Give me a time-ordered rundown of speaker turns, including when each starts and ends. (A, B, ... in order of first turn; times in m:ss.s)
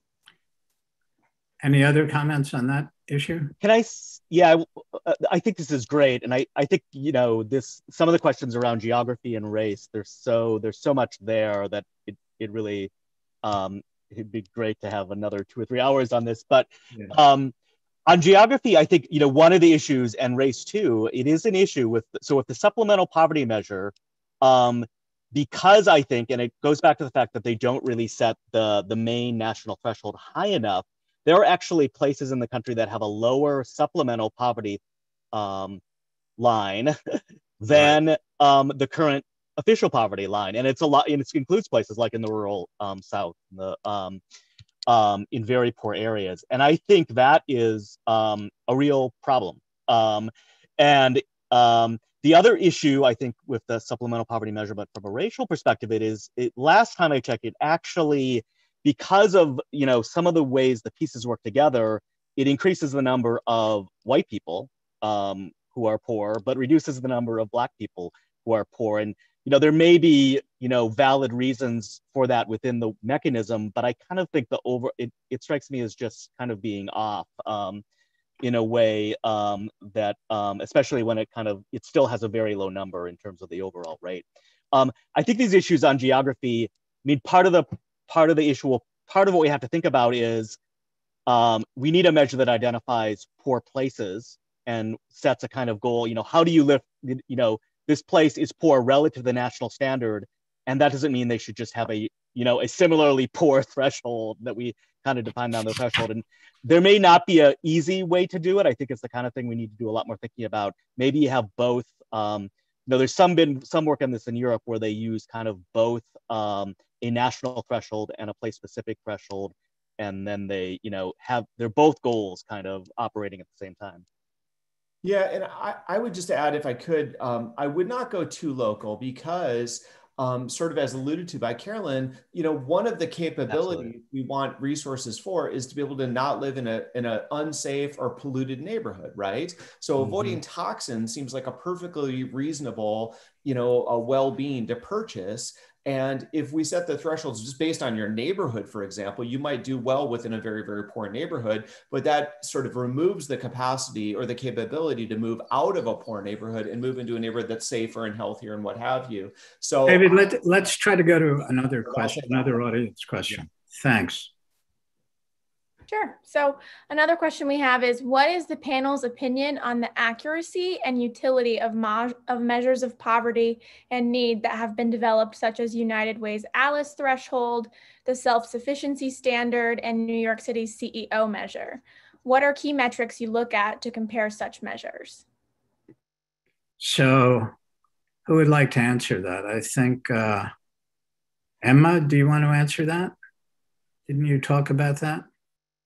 0:01.6-0:03.5 A
0:03.6-0:12.9 B
0:13.4-0:17.5 B
0:18.1-0:34.8 B
0:35.3-0:35.8 B
0:36.4-0:44.2 B
0:44.9-1:17.8 B
1:18.4-1:30.6 B
1:31.3-2:04.0 B
2:05.0-2:40.1 C
2:13.5-2:13.9 B
2:20.0-2:20.4 B
2:39.9-2:44.3 A
2:42.0-2:42.3 C
2:45.9-3:05.2 D
3:06.8-3:07.5 A
3:08.3-3:10.5 A
3:11.6-3:13.1 A
3:14.1-3:15.3 A